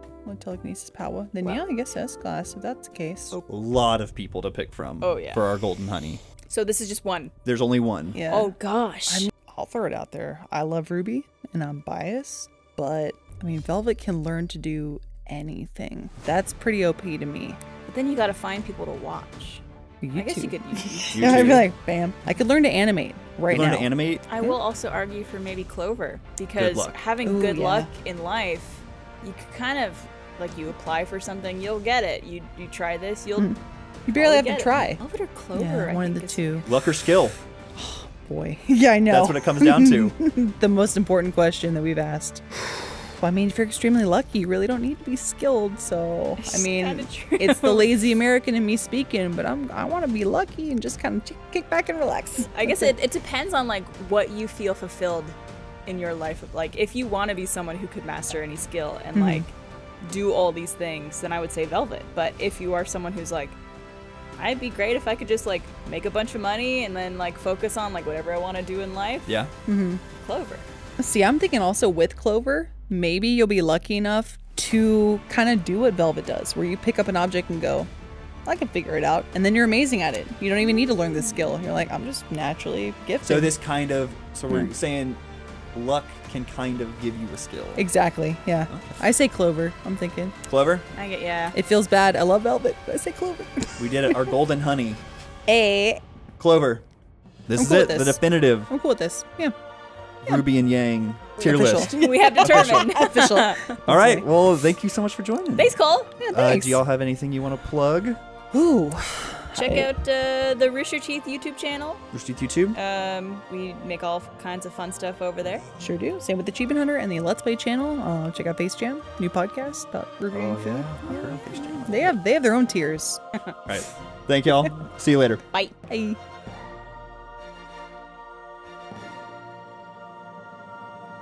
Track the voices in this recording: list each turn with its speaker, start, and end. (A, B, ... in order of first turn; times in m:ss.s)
0:00.2-0:03.4 A
0:03.5-0:06.2 B
0:05.0-0:05.4 C
0:06.5-0:07.3 C
0:07.4-0:08.2 B
0:08.1-0:08.5 A
0:08.3-0:09.3 C
0:09.1-0:17.6 A
0:17.9-0:19.6 C
0:20.0-0:23.9 A
0:20.1-0:21.6 C
0:21.1-0:21.7 B
0:23.5-0:24.2 B
0:24.3-0:33.6 C
0:26.6-0:26.9 B
0:27.2-0:27.9 A
0:33.4-0:35.0 A
0:34.1-0:36.6 C
0:35.5-0:36.8 A
0:36.6-0:37.3 B
0:37.8-0:42.4 A
0:39.1-0:40.2 B
0:43.0-0:52.9 A
0:46.4-0:47.9 C
0:52.5-1:03.6 C
0:59.1-0:59.4 A
1:04.4-1:09.3 C
1:09.2-1:09.5 B
1:09.6-1:10.0 A
1:10.2-1:10.6 C
1:11.0-1:17.9 A
1:18.4-1:23.5 A
1:23.2-1:25.2 B
1:25.7-1:27.9 B
1:27.8-1:30.3 A
1:28.7-1:29.0 B
1:30.4-1:30.8 B
1:30.9-1:31.6 C
1:31.5-1:34.4 A
1:33.8-1:35.0 B
1:35.5-1:36.0 A
1:36.4-1:36.8 B
1:37.5-1:38.7 B
1:37.6-1:39.5 A
1:40.2-1:42.9 B
1:41.4-1:44.2 A
1:41.9-1:43.8 C
1:43.8-1:45.8 B
1:45.6-1:46.2 C
1:46.2-1:46.8 A
1:46.3-1:48.2 B
1:48.5-1:49.9 A
1:49.5-1:52.0 C
1:52.1-1:52.8 B
1:52.7-1:55.6 C
1:55.8-2:03.2 A
2:00.3-2:02.2 B
2:03.6-2:05.4 B
2:05.9-2:06.2 A